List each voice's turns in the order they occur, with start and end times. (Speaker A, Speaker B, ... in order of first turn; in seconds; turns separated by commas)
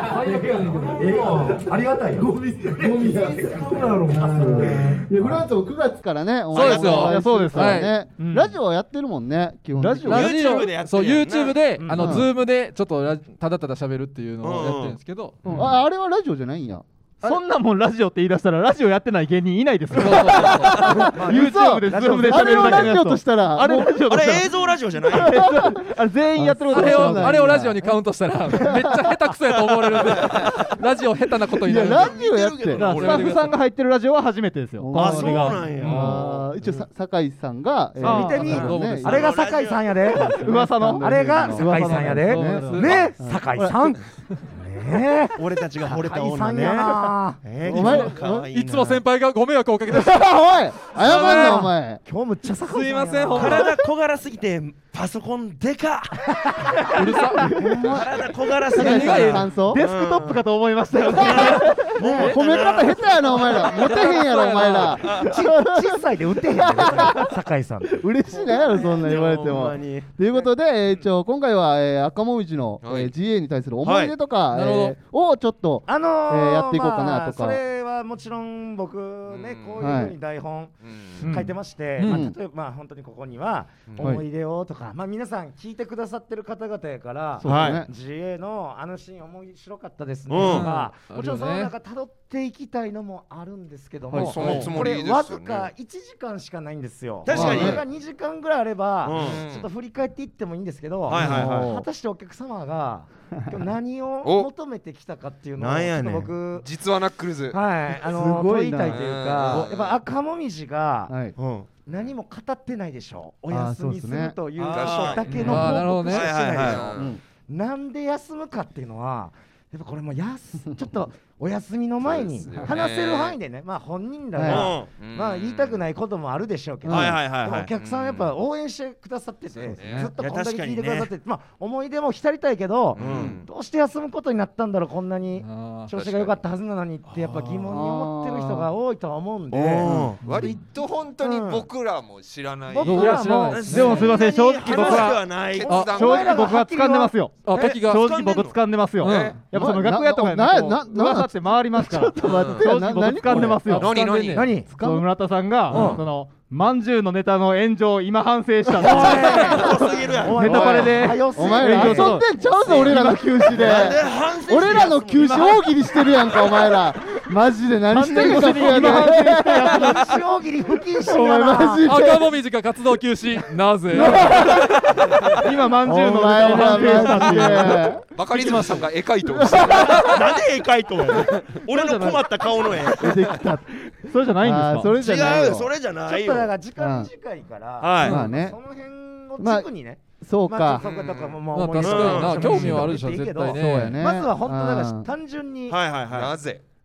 Speaker A: 0.2-2.7, Speaker B: 0.3-0.9, Speaker C: 0.5-1.7, Speaker C: 2.2-5.0, Speaker D: 2.5-10.5, Speaker A: 4.4-4.6, Speaker C: 6.5-7.1, Speaker B: 6.5-7.9, Speaker E: 6.7-8.4, Speaker E: 9.8-10.6, Speaker C: 10.1-11.6, Speaker B: 10.1-15.7, Speaker A: 11.8-12.2, Speaker D: 11.9-12.3, Speaker C: 14.4-15.0, Speaker E: 15.4-15.7, Speaker D: 15.5-17.4, Speaker E: 17.2-27.7, Speaker B: 19.9-20.9, Speaker D: 20.1-24.4, Speaker A: 20.7-23.0, Speaker C: 24.1-25.4, Speaker D: 25.1-27.8, Speaker B: 26.7-32.2, Speaker D: 28.5-29.2, Speaker C: 29.7-30.6, Speaker D: 31.6-33.0, Speaker C: 31.7-33.5, Speaker E: 32.7-36.5, Speaker B: 32.9-33.5, Speaker D: 34.8-39.2, Speaker C: 34.9-36.2, Speaker B: 35.6-36.2, Speaker E: 38.0-38.8, Speaker A: 38.0-40.5, Speaker B: 38.2-39.5, Speaker C: 39.0-40.1, Speaker E: 40.2-42.9, Speaker D: 40.2-44.0, Speaker A: 41.0-47.4, Speaker B: 42.1-43.1, Speaker C: 45.3-49.0, Speaker D: 47.6-48.5, Speaker B: 47.7-51.7, Speaker D: 49.9-52.0, Speaker A: 51.0-53.7, Speaker B: 52.7-53.7, Speaker C: 53.3-57.0, Speaker A: 56.4-57.4, Speaker B: 56.9-57.6, Speaker D: 57.4-59.8, Speaker C: 57.8-64.2, Speaker E: 58.7-62.2, Speaker B: 58.8-59.5, Speaker D: 61.4-67.3, Speaker B: 62.2-62.6, Speaker B: 63.6-65.2, Speaker C: 65.0-65.3, Speaker A: 65.1-68.8, Speaker D: 67.9-77.6, Speaker C: 68.5-70.1, Speaker F: 72.8-73.1, Speaker C: 73.8-74.1, Speaker B: 74.5-75.0, Speaker A: 75.9-106.7, Speaker F: 79.3-80.0, Speaker D: 79.8-80.1, Speaker F: 80.8-81.3, Speaker B: 81.2-82.2, Speaker D: 82.0-82.3, Speaker F: 83.9-84.2, Speaker D: 84.0-84.2, Speaker D: 87.4-87.9, Speaker C: 87.4-87.8, Speaker C: 90.3-90.7, Speaker B: 90.4-91.7, Speaker F: 94.1-95.7, Speaker C: 94.4-94.8, Speaker C: 97.2-97.8, Speaker D: 97.3-97.8, Speaker C: 99.0-99.4, Speaker F: 99.1-99.7, Speaker C: 101.1-101.8, Speaker D: 101.2-101.9, Speaker F: 104.2-104.5, Speaker C: 105.6-106.3, Speaker F: 106.6-107.6, Speaker A: 107.5-111.1, Speaker D: 108.0-109.6, Speaker F: 108.9-110.0, Speaker D: 111.1-111.4, Speaker C: 111.4-111.7, Speaker A: 111.8-140.0, Speaker D: 113.5-114.4, Speaker C: 114.6-116.9, Speaker F: 114.7-115.8, Speaker D: 115.3-115.6, Speaker B: 115.4-116.4, Speaker F: 116.3-117.2, Speaker D: 117.0-117.2, Speaker F: 122.0-123.4, Speaker D: 124.3-124.7, Speaker C: 124.5-124.9, Speaker F: 124.9-125.8, Speaker D: 126.8-127.2, Speaker C: 126.9-127.7, Speaker F: 127.7-128.3, Speaker F: 129.5-130.1, Speaker C: 130.2-131.1, Speaker F: 132.9-133.5, Speaker C: 133.0-133.4, Speaker B: 135.4-135.9, Speaker F: 135.9-136.4, Speaker C: 137.1-137.7, Speaker D: 137.7-138.7, Speaker C: 139.5-140.2, Speaker D: 140.0-140.6, Speaker F: 140.2-143.2, Speaker A: 141.2-141.7, Speaker A: 142.7-147.8, Speaker B: 142.8-144.1, Speaker E: 143.0-163.5, Speaker C: 143.5-145.8, Speaker F: 145.6-146.4, Speaker B: 145.7-146.1, Speaker B: 147.4-148.1, Speaker C: 147.6-149.3, Speaker B: 149.0-149.4, Speaker D: 149.5-155.1, Speaker F: 152.2-152.7, Speaker F: 153.7-154.5, Speaker A: 154.2-154.7, Speaker A: 155.7-156.0, Speaker D: 158.7-159.4, Speaker A: 158.8-162.2, Speaker C: 159.1-160.8, Speaker D: 161.3-170.2, Speaker C: 163.4-166.5, Speaker E: 167.9-170.1, Speaker A: 168.3-169.0, Speaker A: 169.6-171.8, Speaker D: 171.0-172.4, Speaker B: 171.8-175.0, Speaker D: 173.9-174.9, Speaker E: 173.9-174.5, Speaker E: 175.4-178.6, Speaker D: 175.8-178.0, Speaker F: 177.1-180.3, Speaker C: 178.3-178.8, Speaker D: 179.2-180.0, Speaker C: 179.8-183.4, Speaker E: 181.7-182.2, Speaker D: 182.9-185.7, Speaker E: 184.0-184.9, Speaker C: 185.0-186.5, Speaker A: 186.1-195.8, Speaker D: 186.8-187.1, Speaker C: 187.8-188.2, Speaker D: 188.0-188.6, Speaker D: 189.4-190.8, Speaker F: 190.8-191.4, Speaker B: 191.5-194.0, Speaker C: 191.8-192.9, Speaker D: 193.5-195.1, Speaker C: 195.7-196.3, Speaker F: 196.1-196.6